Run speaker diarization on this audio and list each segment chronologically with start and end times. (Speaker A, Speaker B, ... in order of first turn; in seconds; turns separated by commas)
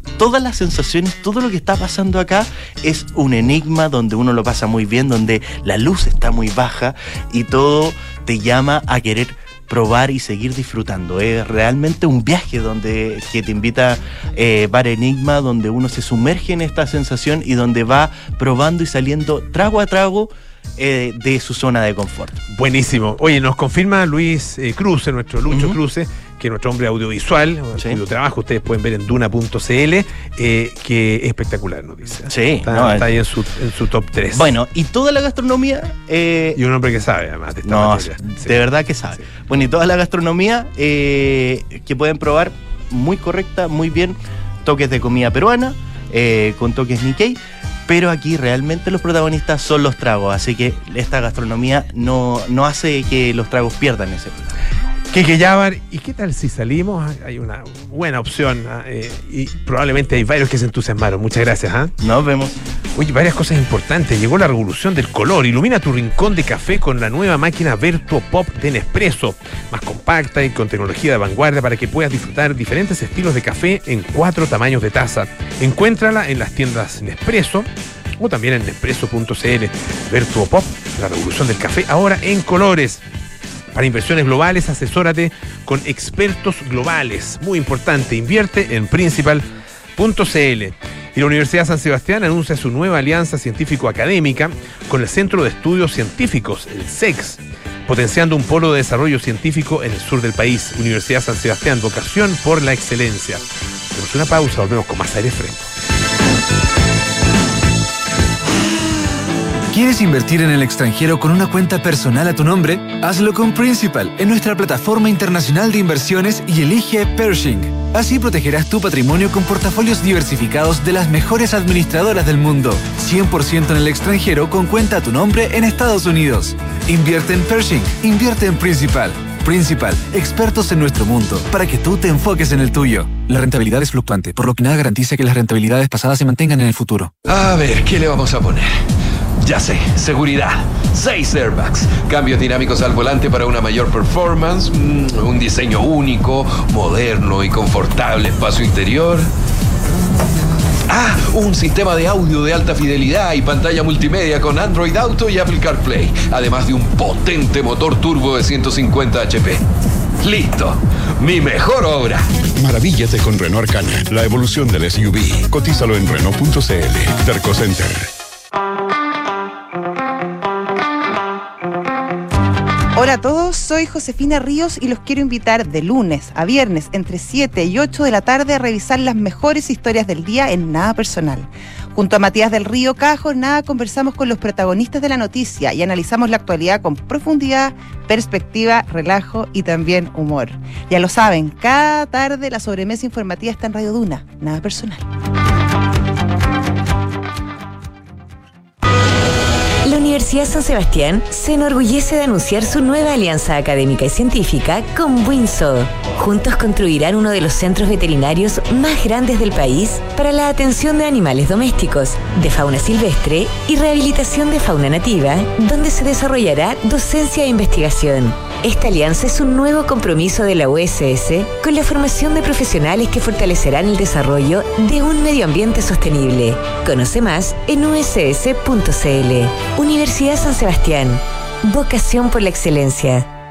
Speaker A: 0.2-22.4, Speaker B: 22.5-34.5, Speaker A: 25.5-25.8, Speaker A: 32.3-33.1, Speaker A: 34.3-36.6, Speaker B: 36.6-38.6, Speaker A: 37.7-54.6, Speaker B: 55.1-61.9, Speaker A: 62.0-62.6, Speaker B: 63.0-83.0, Speaker B: 83.7-89.5, Speaker B: 90.0-105.7, Speaker C: 109.7-137.1, Speaker D: 137.3-138.7, Speaker D: 139.4-149.3, Speaker D: 150.9-159.6, Speaker D: 160.2-162.2, Speaker E: 162.6-168.1, Speaker F: 172.9-195.0, Speaker G: 199.8-233.3